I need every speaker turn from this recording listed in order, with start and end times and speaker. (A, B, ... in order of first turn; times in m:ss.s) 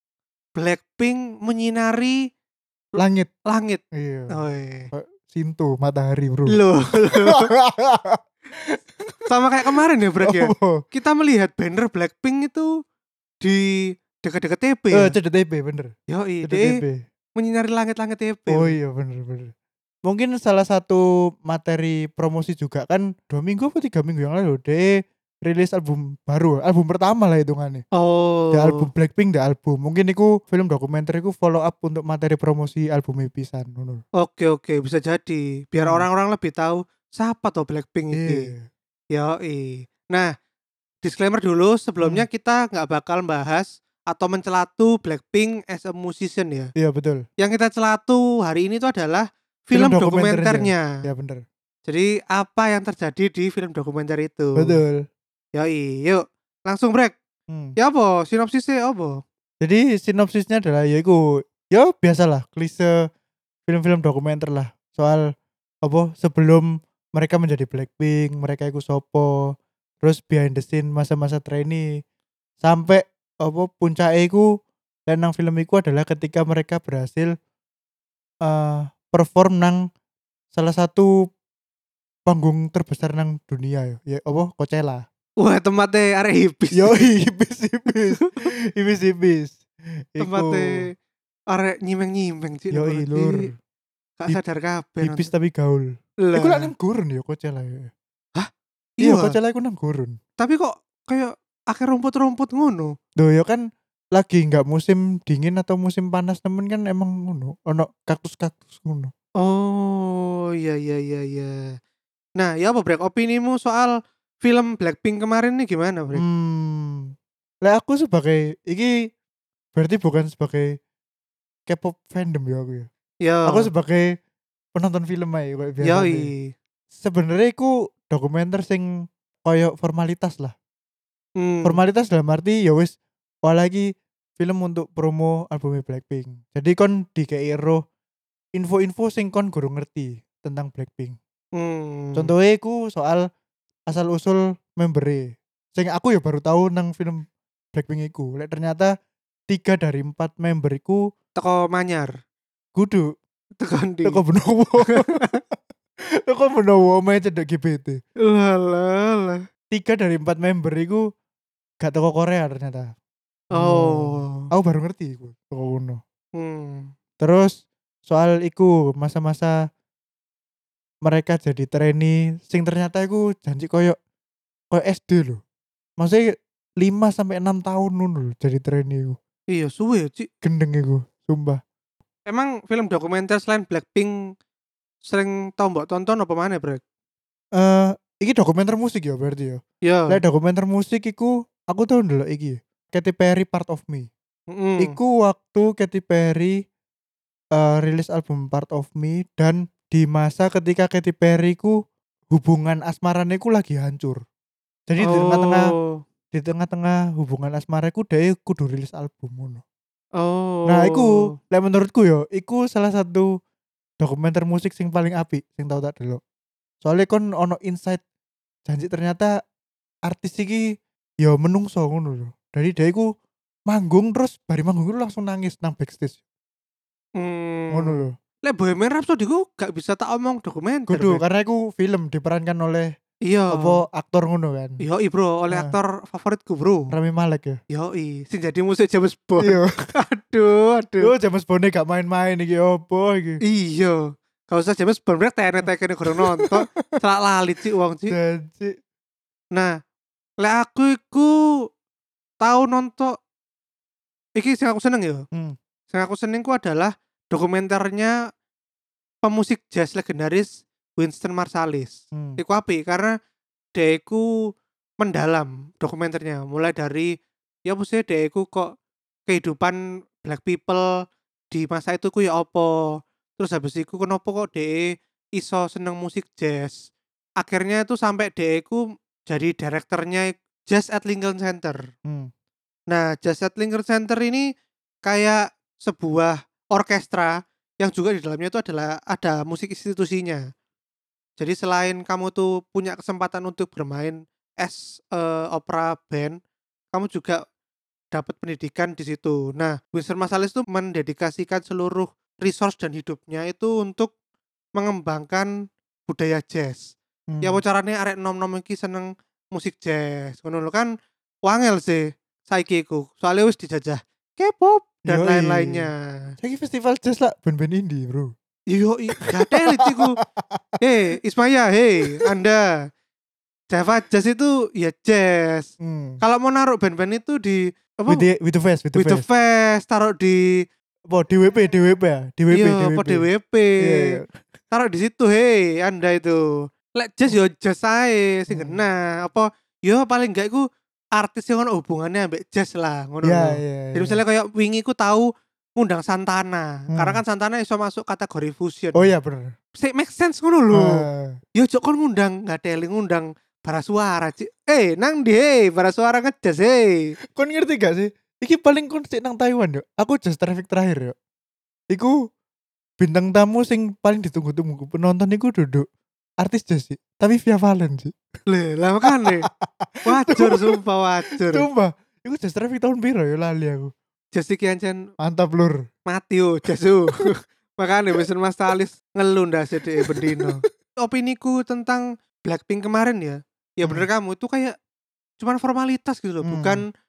0:00.6-0:02.2 A
0:03.0-0:03.3 B
0:03.5-0:04.9 A
0:03.9-0:04.4 B
0:04.9-0:09.3 B
0:06.5-0:07.5 A
0:09.3-0:12.7 A
0:10.2-0:10.8 B
0:13.4-0:15.1 A
0:14.9-0:15.9 B
0:16.1-0:16.8 A
0:16.4-0:17.0 B
0:17.4-0:18.8 A
0:18.5-0:19.5 B
0:20.0-0:27.8 B
0:27.9-0:28.8 A
0:28.5-0:34.0 B
0:34.2-0:38.5 A
0:38.1-0:38.7 B
0:39.1-0:40.3 A
0:41.0-0:46.7 A
0:46.8-0:47.2 B
0:47.4-0:50.9 A
0:49.7-0:51.4 B
0:51.8-0:54.8 A
0:54.6-0:55.0 B
0:55.5-0:57.2 A
0:57.5-0:57.7 B
0:57.8-0:59.2 A
0:59.6-1:02.9 B
1:03.7-1:05.3 B
1:05.8-1:09.3 B
1:10.0-1:11.8 B
1:12.6-1:14.4 B
1:15.1-1:17.3 B
1:18.4-1:19.8 B
1:20.5-1:21.1 B
1:22.3-1:25.0 B
1:25.4-1:27.0 A
1:26.7-1:30.8 B
1:28.1-1:28.5 A
1:30.2-1:30.9 A
1:31.5-1:33.5 A
1:32.7-1:33.5 B
1:34.2-1:35.3 A
1:35.0-1:37.9 B
1:36.2-1:36.7 A
1:38.4-1:39.4 A
1:39.0-1:40.2 B
1:40.4-1:42.9 A
1:43.2-1:49.1 B
1:49.4-1:51.6 A
1:52.4-1:56.2 A
1:56.1-1:57.1 B
1:57.6-1:58.9 B
1:59.7-2:00.8 B
2:01.7-2:02.9 B
2:03.2-2:03.7 A
2:03.5-2:04.1 B
2:04.7-2:06.3 B
2:05.8-2:06.5 A
2:06.9-2:08.9 B
2:09.4-2:10.5 B
2:11.4-2:11.8 A
2:11.6-2:17.8 B
2:18.5-2:21.2 B
2:21.6-2:22.3 A
2:22.2-2:23.2 B
2:23.9-2:28.9 B
2:29.5-2:31.0 B
2:31.4-2:32.1 A
2:32.7-2:33.1 B
2:33.6-2:34.2 A
2:34.0-2:35.2 B
2:34.9-2:35.4 A
2:36.2-2:38.0 B
2:38.2-2:39.4 A
2:39.7-2:41.0 B
2:41.8-2:42.9 B
2:43.5-2:44.5 A
2:43.5-2:46.0 B
2:46.4-2:46.9 A
2:47.2-2:47.5 B
2:48.0-2:49.5 B
2:51.0-2:54.0 B
2:54.7-2:55.4 B
2:56.0-2:56.2 B
2:56.8-2:59.2 B
2:59.5-3:00.3 A
3:00.4-3:01.6 B
3:02.3-3:04.1 A
3:05.0-3:06.8 A
3:07.6-3:14.1 B
3:09.8-3:10.2 A
3:14.5-3:15.0 A
3:14.8-3:16.6 B
3:17.5-3:21.8 B
3:22.3-3:24.2 B
3:24.9-3:25.7 B
3:25.0-3:26.0 A
3:26.3-3:29.6 B
3:30.2-3:31.3 A
3:30.7-3:33.3 B
3:34.0-3:36.2 B
3:36.8-3:38.0 B
3:38.7-3:39.3 B
3:40.1-3:40.6 B
3:41.2-3:43.1 B
3:43.7-3:46.2 B
3:47.2-3:51.2 A
3:47.7-3:48.1 B
3:50.9-3:52.9 B
3:53.3-3:53.8 A
3:53.5-3:54.8 B
3:54.8-3:56.9 A
3:56.9-3:57.6 B
3:57.7-4:01.1 A
3:59.4-3:59.7 B
4:01.0-4:03.4 B
4:03.4-4:08.2 A
4:06.1-4:07.0 B
4:08.1-4:08.8 B
4:10.4-4:11.3 A
4:12.4-4:13.1 A
4:14.4-4:15.2 A
4:15.9-4:18.1 A
4:19.2-4:23.1 A
4:22.1-4:22.4 B
4:23.7-4:24.2 A
4:25.0-4:27.1 A
4:27.6-4:28.7 A
4:29.3-4:30.9 A
4:31.5-4:32.8 A
4:33.4-4:36.8 A
4:37.4-4:41.9 A
4:42.0-4:42.3 B
4:42.9-4:44.5 A
4:45.0-4:50.4 A
4:51.4-4:56.4 A
4:56.9-4:57.4 A
4:58.1-5:04.1 A
5:04.8-5:05.5 A
5:06.1-5:10.9 A
5:07.3-5:07.6 B
5:11.4-5:16.0 A
5:15.1-5:15.9 B
5:16.4-5:18.3 B
5:18.7-5:20.2 A
5:19.2-5:20.8 B
5:20.8-5:22.6 A
5:23.7-5:25.7 A
5:25.8-5:26.2 B
5:26.2-5:28.2 A
5:28.1-5:29.2 B
5:28.9-5:30.6 A
5:31.1-5:33.2 B
5:32.5-5:34.2 A
5:33.8-5:34.2 B
5:34.7-5:36.4 A
5:36.9-5:49.1 A
5:38.5-5:38.8 B
5:43.2-5:44.2 B
5:46.9-5:47.2 B
5:49.0-5:49.5 B
5:49.8-5:51.0 A
5:50.7-5:51.4 B
5:51.6-5:57.1 A
5:57.3-6:01.1 B
6:03.0-6:05.8 B
6:06.4-6:08.1 B
6:08.5-6:09.5 A
6:09.0-6:10.8 B
6:10.0-6:11.7 A
6:11.4-6:13.9 B
6:14.3-6:15.0 A
6:15.2-6:15.8 B
6:16.1-6:24.7 A
6:20.0-6:20.5 B
6:25.4-6:26.9 A
6:26.4-6:26.8 B